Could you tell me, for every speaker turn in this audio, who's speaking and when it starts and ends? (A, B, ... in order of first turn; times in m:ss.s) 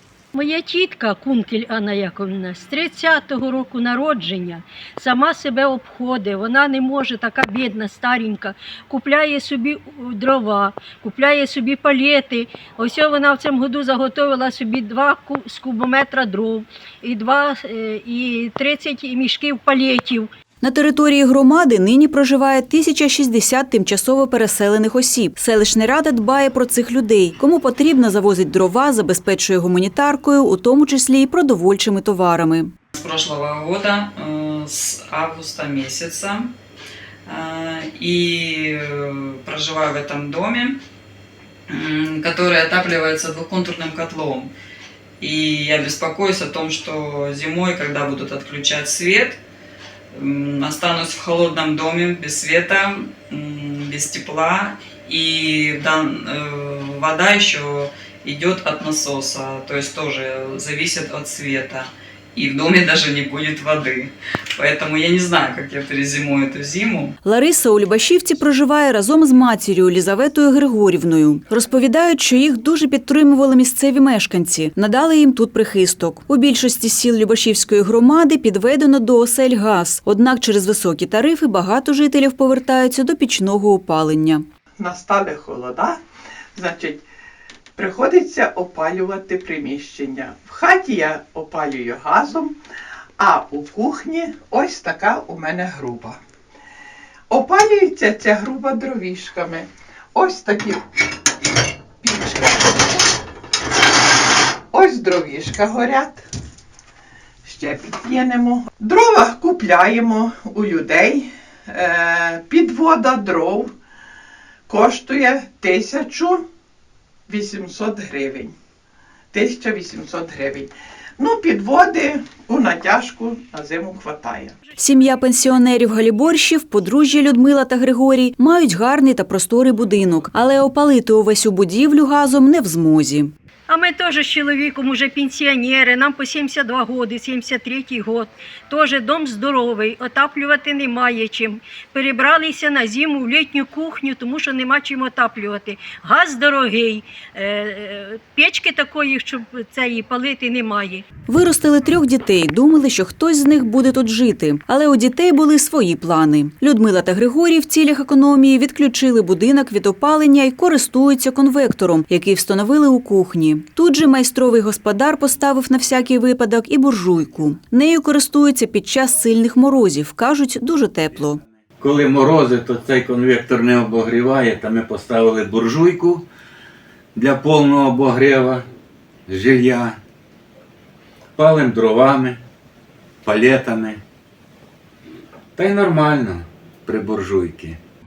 0:00.3-0:20.3 A
0:20.6-0:32.7 B
0:32.9-0:36.5 C
0:37.3-0:40.8 C
0:41.7-0:44.5 C
0:45.2-0:49.4 C
0:50.1-1:07.2 C
1:07.2-1:24.4 B
1:24.8-1:26.0 D
1:26.6-1:27.0 D
1:27.8-1:32.6 D
1:33.2-1:36.2 D
1:37.3-1:40.8 D
1:42.0-1:43.1 D
1:44.7-1:46.3 D
1:47.4-1:53.7 D
1:54.7-1:56.4 D
1:57.3-1:58.5 D
1:59.3-2:04.6 D
2:04.8-2:13.3 B
2:13.7-2:31.1 A
2:31.3-2:51.4 B
2:51.8-2:56.2 E
2:57.2-2:58.6 E
2:59.3-3:00.0 E
3:01.4-3:02.4 E
3:03.2-3:04.0 E
3:05.6-3:07.8 E